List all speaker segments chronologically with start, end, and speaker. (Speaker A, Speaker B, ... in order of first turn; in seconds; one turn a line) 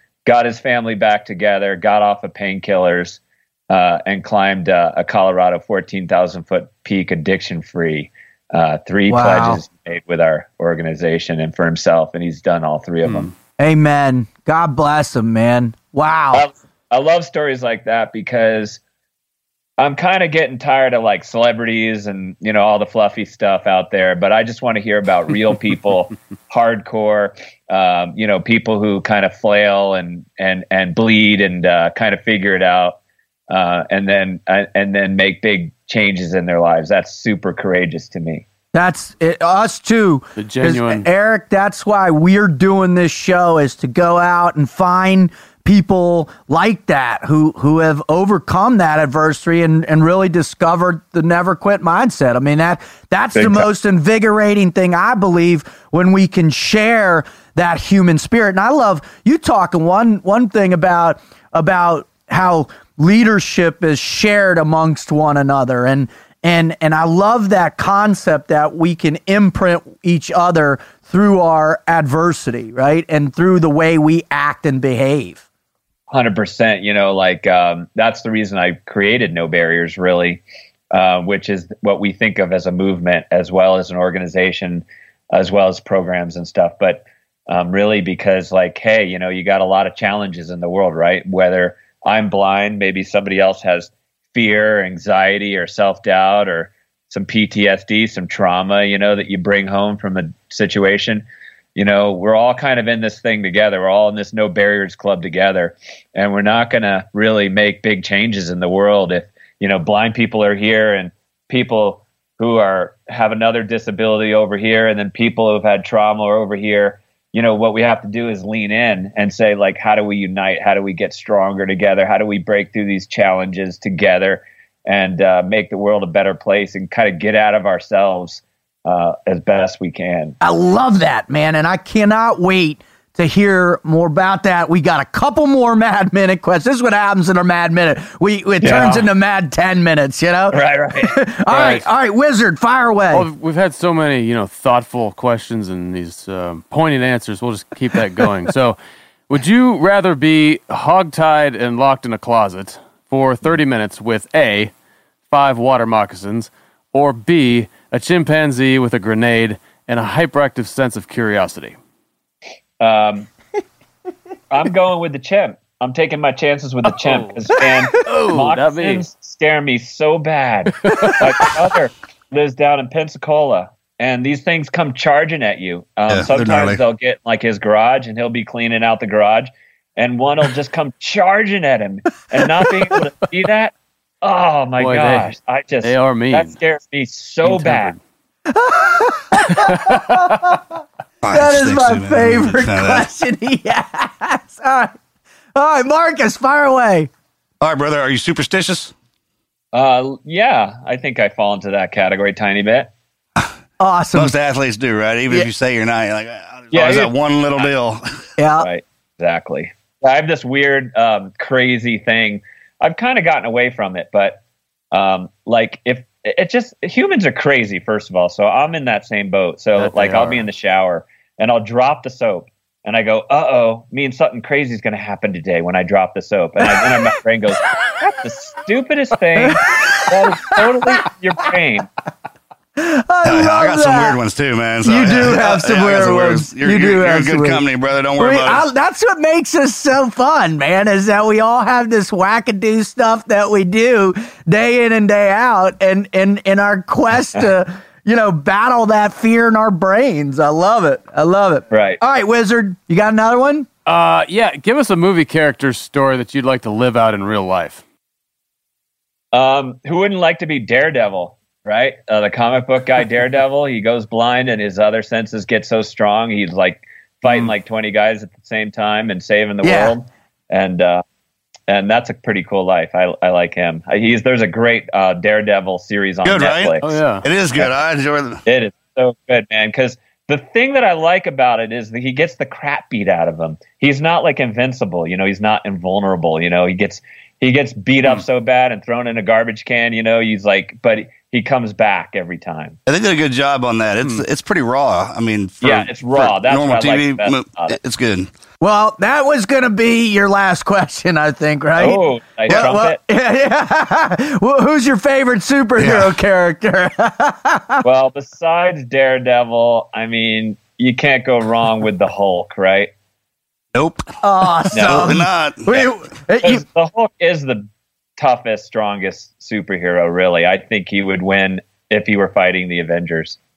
Speaker A: 0.3-13.3
Speaker B: 9.1-9.6
Speaker C: 13.1-13.3
Speaker B: 13.6-16.5
Speaker A: 16.3-18.8
Speaker A: 19.8-33.0
Speaker A: 33.5-38.4
Speaker B: 38.7-75.4
Speaker C: 40.4-41.1
Speaker A: 53.4-53.6
Speaker A: 76.1-101.2
Speaker A: 101.8-130.4
Speaker B: 130.4-143.3
Speaker A: 138.6-138.9
Speaker C: 138.6-139.1
Speaker A: 140.5-141.7
Speaker C: 141.5-141.8
Speaker C: 143.1-148.8
Speaker C: 149.3-154.7
Speaker C: 155.3-161.8
Speaker A: 162.8-163.3
Speaker A: 164.5-187.9
Speaker C: 167.0-167.3
Speaker C: 168.0-169.0
Speaker C: 170.8-171.5
Speaker D: 176.1-176.8
Speaker C: 184.8-186.5
Speaker C: 187.4-188.0
Speaker B: 188.5-190.6
Speaker C: 189.4-190.4
Speaker D: 191.2-193.1
Speaker B: 191.3-194.9
Speaker B: 195.6-197.1
Speaker D: 197.6-198.9
Speaker A: 199.7-202.9
Speaker B: 203.8-204.3
Speaker D: 204.2-208.0
Speaker A: 206.7-207.7
Speaker B: 208.4-208.7
Speaker A: 208.6-214.4
Speaker A: 214.9-231.9
Speaker C: 219.8-220.4
Speaker B: 229.4-230.9
Speaker B: 232.8-234.2
Speaker D: 233.2-238.6
Speaker B: 234.8-237.6
Speaker B: 238.2-253.7
Speaker A: 251.7-252.0
Speaker C: 253.9-257.8
Speaker A: 259.3-271.0
Speaker B: 269.6-269.9
Speaker A: 271.7-276.8
Speaker D: 276.2-278.4
Speaker C: 276.8-277.2
Speaker A: 278.5-292.8
Speaker D: 292.9-298.3
Speaker A: 295.6-297.8
Speaker B: 298.6-307.9
Speaker A: 301.8-303.0
Speaker D: 305.8-306.1
Speaker A: 307.8-312.9
Speaker D: 313.8-314.1
Speaker B: 314.2-316.6
Speaker A: 314.7-315.2
Speaker D: 314.7-315.8
Speaker A: 316.4-317.7
Speaker A: 318.2-323.4